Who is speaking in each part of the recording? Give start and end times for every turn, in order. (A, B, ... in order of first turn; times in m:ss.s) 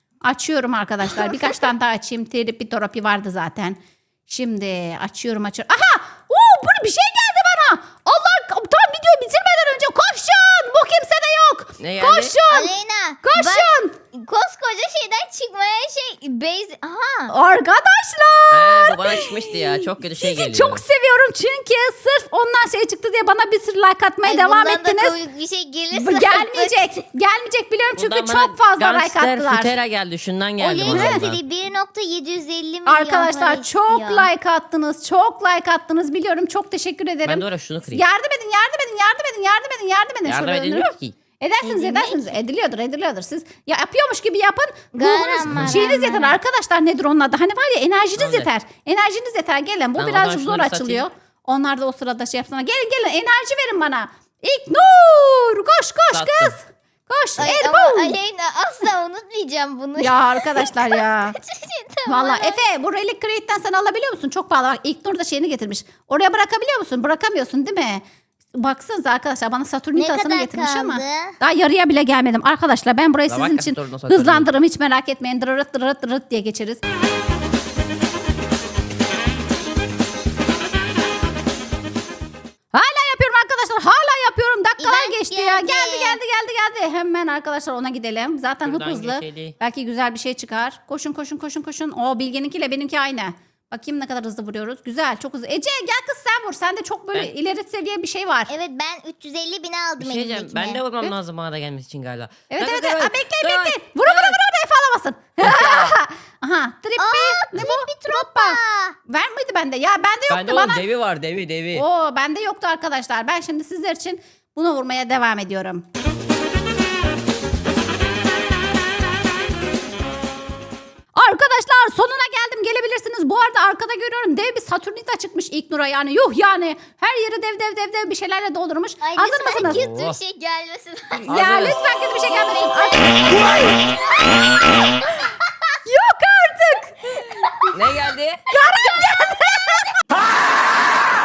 0:00.2-0:12.7 A
0:01.1-0:01.6 B
0:11.8-0:12.4 C
0:12.5-0:17.3 B
0:13.2-0:14.0 A
0:17.3-0:25.2 A
0:18.5-0:20.8 C
0:24.2-0:26.9 B
0:25.9-0:29.8 A
0:28.0-0:31.4 C
0:30.6-0:34.3 B
0:30.8-0:31.2 A
0:32.9-0:58.2 A
0:37.2-0:38.0 C
0:40.2-0:41.2 C
0:41.6-0:42.4 B
0:44.9-0:46.4 B
0:45.5-0:45.8 C
0:48.2-0:48.5 C
0:50.0-0:51.0 C
0:56.1-0:56.6 C
0:57.4-1:02.6 B
1:00.0-1:01.4 A
1:02.1-1:08.0 A
1:08.6-1:16.8 A
1:10.0-1:11.4 B
1:13.3-1:14.5 C
1:22.7-1:38.5 A
1:24.8-1:26.2 B
1:28.6-1:29.6 C
1:38.5-1:40.8 B
1:40.0-1:44.4 C
1:42.5-1:50.8 A
1:45.4-1:46.0 C
1:47.0-1:49.0 B
1:50.3-1:51.8 C
1:51.7-1:55.8 A
2:01.1-2:09.8 A
2:09.0-2:15.7 B
2:09.6-2:10.2 C
2:11.2-2:11.8 C
2:11.3-2:15.1 A
2:15.9-2:17.7 A
2:17.7-2:18.4 C
2:18.5-2:19.9 A